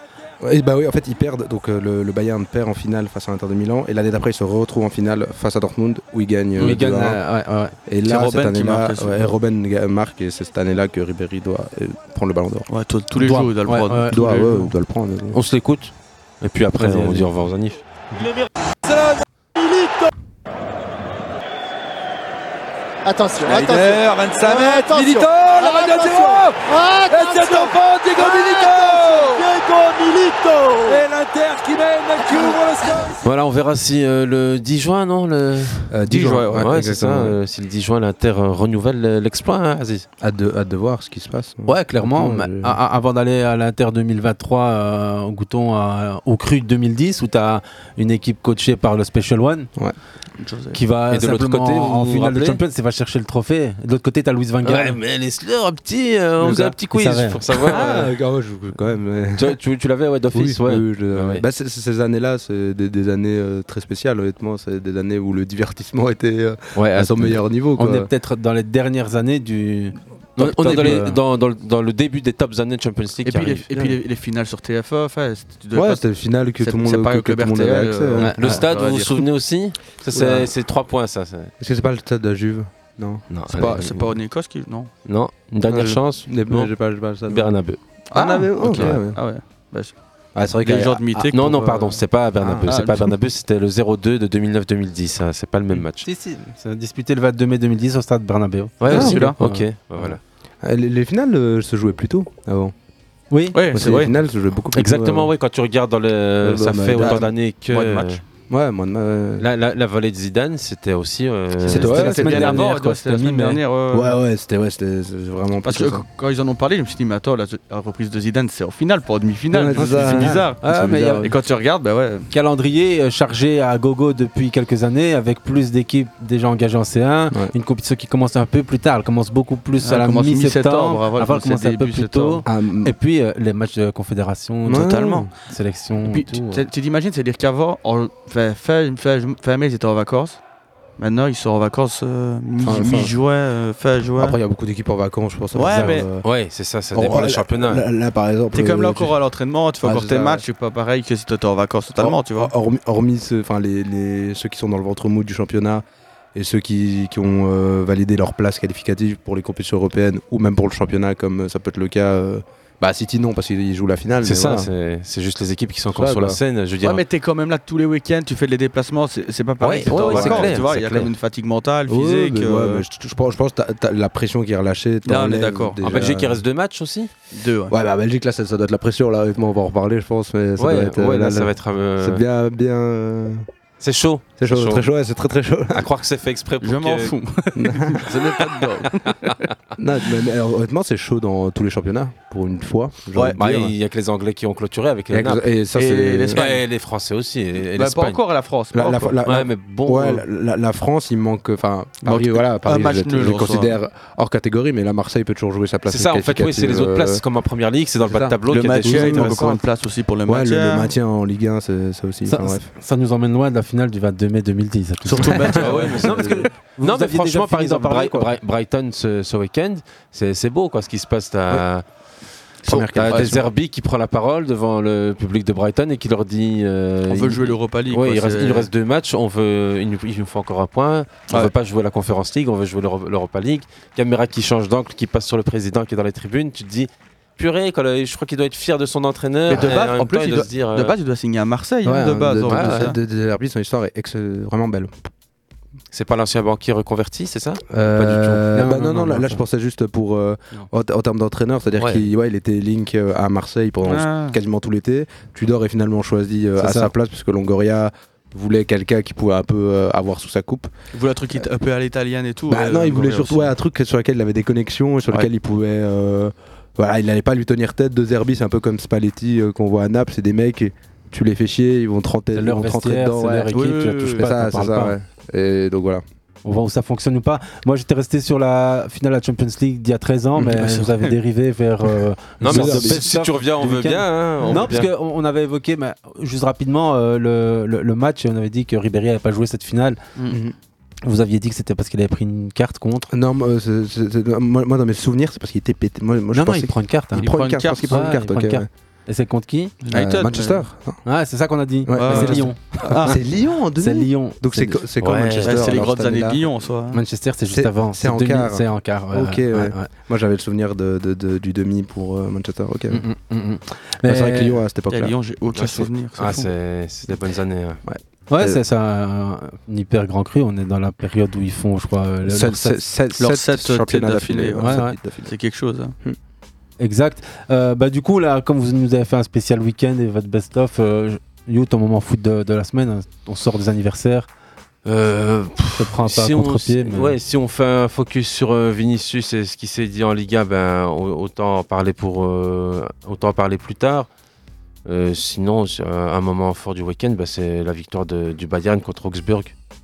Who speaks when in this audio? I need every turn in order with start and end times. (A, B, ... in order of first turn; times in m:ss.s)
0:00.4-0:07.2 A
0:06.6-0:07.8 B
0:07.9-0:12.7 A
0:08.0-0:09.3 C
0:12.7-0:14.7 C
0:13.2-0:14.2 B
0:14.1-0:15.4 A
0:15.3-0:17.8 D
0:16.8-0:17.3 B
0:18.1-0:18.5 E
0:18.9-0:19.2 F
0:19.6-0:20.1 E
0:23.0-0:31.1 E
0:23.4-0:29.4 F
0:30.9-0:33.2 F
0:32.2-0:32.6 E
0:33.2-0:35.9 D
0:35.9-0:37.4 A
0:36.1-0:36.6 C
0:36.5-0:40.1 D
0:40.2-0:42.8 A
0:41.7-0:49.7 B
0:50.4-0:50.8 C
0:50.7-0:55.0 B
0:51.1-0:52.6 D
0:54.6-0:58.1 D
0:56.4-0:56.7 A
0:56.9-0:57.6 B
0:57.6-0:59.6 A
0:59.4-1:01.4 D
1:00.3-1:08.1 A
1:06.8-1:07.4 D
1:07.8-1:11.2 B
1:10.4-1:13.7 D
1:13.2-1:16.0 C
1:15.7-1:18.4 A
1:16.6-1:19.2 C
1:18.2-1:18.6 B
1:18.4-1:21.5 D
1:20.1-1:20.5 A
1:21.6-1:23.2 A
1:23.3-1:24.1 D
1:23.5-1:24.9 C
1:25.1-1:26.7 D
1:25.7-1:27.5 A
1:27.3-1:27.8 D
1:28.1-1:30.0 C
1:28.1-1:29.2 A
1:28.7-1:29.0 D
1:30.4-1:32.7 A
1:30.6-1:31.7 C
1:31.3-1:36.0 D
1:32.7-1:33.1 C
1:36.0-1:39.6 B
1:38.8-1:40.2 D
1:38.9-1:39.3 A
1:38.9-1:39.4 C
1:40.0-1:42.7 A
1:43.3-1:43.6 B
1:43.5-1:44.1 C
1:43.7-1:45.3 A
1:44.7-1:48.2 D
1:46.4-1:47.3 A
1:47.0-1:48.2 C
1:48.5-1:49.5 A
1:49.4-1:52.1 D
1:51.6-1:52.6 A
1:51.7-1:54.2 C
1:51.8-1:53.6 B
1:53.9-1:56.0 A
1:55.6-2:02.3 C
1:59.5-2:01.3 A
1:59.7-2:01.3 B
2:02.3-2:16.6 B
2:09.8-2:12.5 C
2:12.5-2:12.9 A
2:14.7-2:15.3 A
2:14.7-2:15.3 C
2:16.0-2:20.4 C
2:21.0-2:24.4 C
2:22.6-2:23.1 A
2:24.2-2:26.3 A
2:25.6-2:26.1 C
2:25.7-2:26.0 B
2:26.2-2:27.8 D
2:26.9-2:29.2 A
2:28.5-2:32.5 C
2:29.8-2:30.4 A
2:32.0-2:44.7 A
2:44.2-2:47.0 D
2:45.9-2:46.4 A
2:46.8-2:52.8 C
2:49.6-2:51.1 D
2:49.9-2:50.6 A
2:51.9-2:56.4 A
2:55.1-2:55.8 C
2:55.8-2:57.1 D
2:57.3-2:57.7 C
2:57.7-3:03.5 A
3:00.6-3:02.2 D
3:03.8-3:04.9 D
3:04.4-3:05.9 A
3:05.7-3:07.2 D
3:06.6-3:09.4 C
3:07.6-3:08.1 A
3:08.1-3:09.0 D
3:09.8-3:13.7 A
3:13.4-3:15.5 D
3:15.1-3:16.4 A
3:15.8-3:16.6 C
3:16.3-3:18.2 D
3:17.8-3:19.2 C
3:18.7-3:27.2 A
3:19.2-3:20.2 D
3:22.0-3:23.8 C
3:25.9-3:29.6 D
3:28.0-3:29.5 A
3:28.5-3:30.9 C
3:30.3-3:32.7 A
3:32.3-3:38.3 B
3:35.0-3:36.1 C
3:35.2-3:36.4 A
3:35.7-3:41.8 D
3:42.6-3:43.4 A
3:42.7-4:01.0 D
3:42.7-3:43.3 C
3:47.1-3:48.7 C
3:59.5-4:03.0 C
4:01.8-4:05.1 A
4:02.5-4:03.0 D
4:05.9-4:08.6 D
4:07.7-4:20.7 A
4:08.5-4:09.3 B
4:11.8-4:12.1 D
4:13.8-4:14.4 C
4:16.6-4:16.9 B
4:20.9-4:23.5 C
4:22.5-4:36.0 A
4:32.4-4:35.0 B
4:33.5-4:34.2 C
4:36.4-4:50.0 B
4:40.4-4:40.9 A
4:42.4-4:43.1 A
4:42.4-4:44.9 D
4:50.3-4:50.6 A
4:51.0-4:53.1 B
4:53.1-4:58.7 A
4:56.3-4:57.3 B
4:57.2-4:58.0 C
4:57.9-4:59.8 B
4:59.8-5:00.6 C
4:59.9-5:01.0 A
5:01.0-5:02.6 B
5:01.8-5:06.4 A
5:01.9-5:03.2 C
5:03.8-5:04.8 B
5:05.0-5:05.9 D
5:05.4-5:07.0 C
5:06.9-5:09.9 B
5:07.5-5:13.0 A
5:12.9-5:14.6 B
5:14.0-5:15.1 A
5:14.9-5:16.5 C
5:15.6-5:17.8 D
5:17.8-5:18.6 A
5:18.3-5:22.8 B
5:22.3-5:25.3 A
5:23.2-5:26.0 C
5:24.6-5:25.0 B
5:26.8-5:34.3 B
5:34.8-5:44.1 D
5:35.8-5:37.1 B
5:44.9-5:49.6 D